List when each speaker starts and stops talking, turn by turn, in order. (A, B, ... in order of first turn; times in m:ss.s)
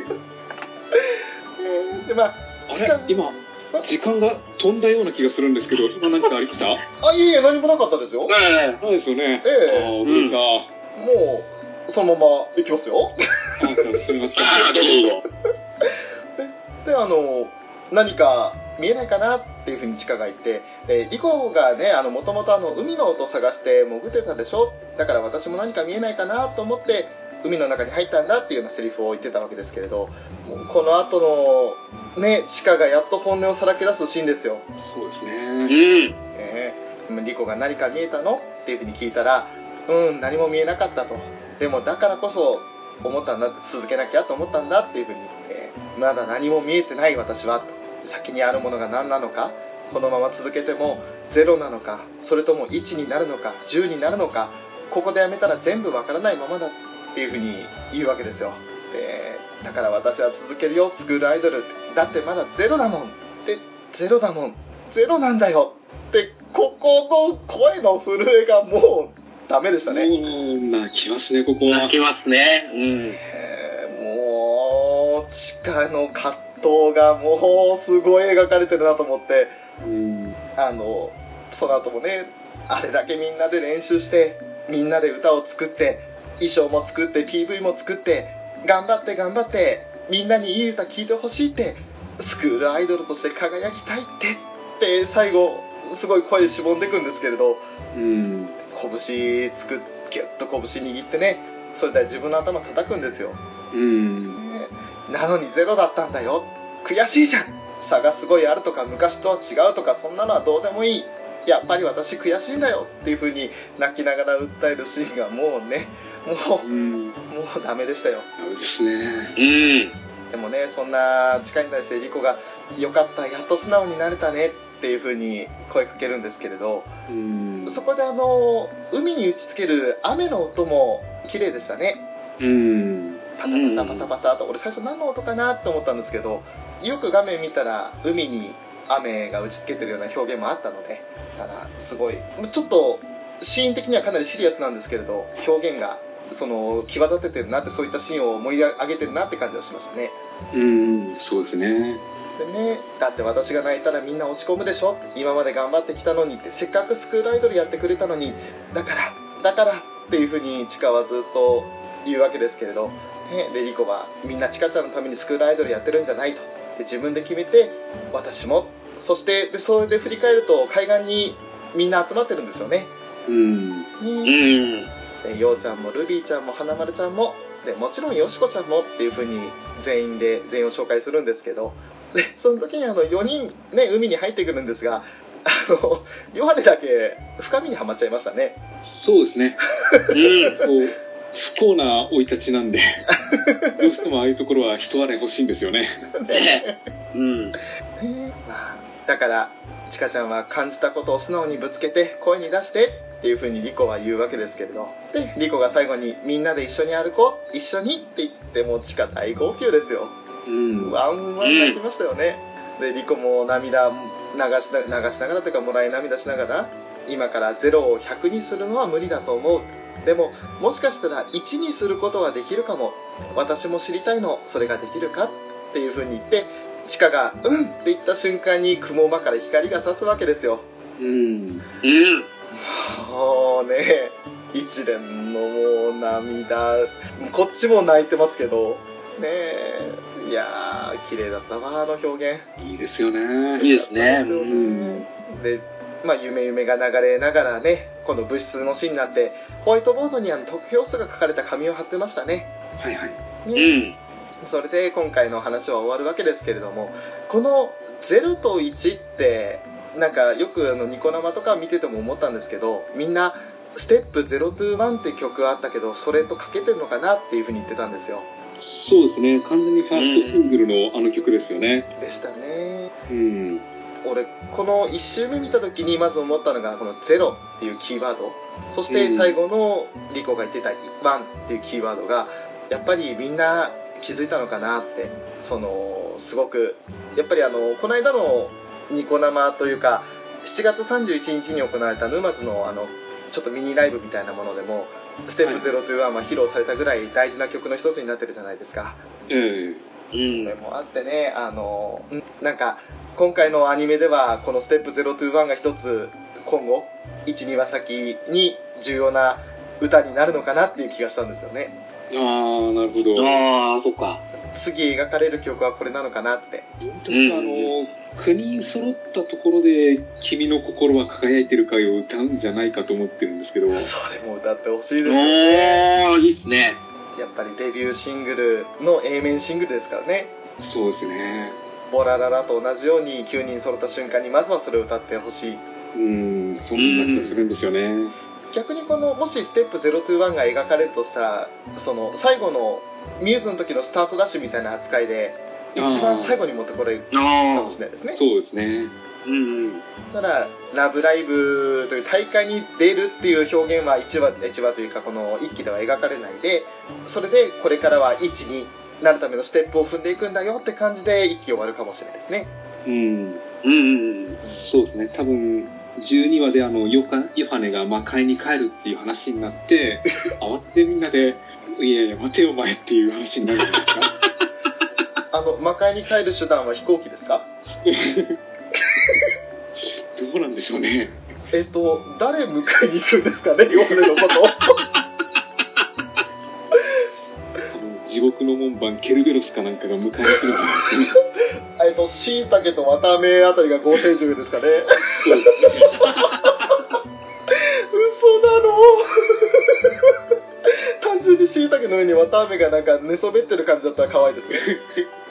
0:00.9-0:03.9 A
0:02.7-0:06.8 B
0:07.0-0:08.3 A
0:08.3-0:08.8 C
0:08.8-0:10.7 B
0:09.4-0:10.0 A
0:10.0-0:10.4 C
0:10.9-0:13.1 A
0:13.6-0:14.9 B
0:14.4-0:15.2 C
0:15.8-0:34.6 A
0:34.8-0:35.8 B
0:35.7-0:36.2 C
0:36.3-1:10.1 A
1:09.9-1:11.9 B
1:11.6-1:13.2 C
1:13.3-1:19.6 A
1:19.8-1:20.4 B
1:20.6-1:37.6 A
1:37.9-1:38.6 B
1:38.7-1:43.4 A
1:43.7-1:44.4 B
1:44.3-1:56.7 A
1:56.6-1:57.2 B
1:57.3-1:58.3 A
1:58.4-1:59.4 B
1:59.4-1:59.9 C
2:00.3-2:06.9 A
2:07.1-2:07.8 B
2:07.6-2:12.0 A
2:12.4-2:13.2 B
2:13.4-2:30.2 A
2:13.5-2:14.1 C
2:30.5-2:32.0 B
2:32.4-2:52.9 A
2:53.2-2:53.9 B
2:54.0-2:54.4 A
2:54.2-2:54.9 C
2:55.2-3:08.6 A
3:08.9-3:09.6 B
3:10.1-3:10.6 C
3:10.6-3:13.0 B
3:13.3-3:13.8 A
3:13.8-3:16.0 B
3:16.2-3:16.8 A
3:16.3-3:17.5 C
3:18.0-3:30.2 A
3:30.4-3:31.0 B
3:30.8-3:50.6 A
3:31.4-3:31.8 C
3:51.0-3:51.6 B
3:51.8-3:52.2 C
3:52.5-4:02.5 A
4:02.6-4:03.7 B
4:03.6-4:04.6 C
4:03.6-4:12.5 A
4:04.4-4:05.0 B
4:12.8-4:13.2 B
4:13.4-4:13.8 A
4:13.5-4:13.9 C
4:14.4-4:28.3 A
4:28.6-4:31.9 B
4:29.9-4:30.4 C
4:32.0-4:32.9 A
4:33.1-4:33.6 B
4:34.0-4:59.1 A
4:38.9-4:39.4 B
4:55.4-4:55.7 B
4:59.3-4:59.8 B
5:00.1-5:00.5 C
5:00.3-5:11.8 A
5:12.1-5:13.4 B
5:13.1-5:14.2 C
5:14.5-5:16.6 A
5:16.8-5:23.9 B
5:17.1-5:17.7 C
5:23.7-5:25.9 A
5:25.0-5:26.8 C
5:27.1-5:30.3 A
5:30.6-5:31.6 B
5:31.9-5:35.6 A
5:35.9-5:38.1 B
5:36.8-5:37.4 C
5:38.5-5:48.2 A
5:45.7-5:46.4 B
5:47.1-5:47.8 C
5:48.1-5:48.9 B
5:49.2-5:49.8 C
5:50.1-6:02.5 A
6:02.8-6:03.4 B
6:03.6-6:04.4 C
6:04.5-6:14.1 B
6:15.3-6:17.5 A
6:17.8-6:18.4 B
6:19.8-6:21.2 B
6:21.5-6:24.8 A
6:23.7-6:24.1 B
6:27.7-6:31.2 B
6:31.8-6:34.9 A
6:35.2-6:36.0 B
6:35.6-6:36.3 A
6:37.5-6:39.9 A
6:41.0-6:44.7 A
6:44.5-6:45.1 B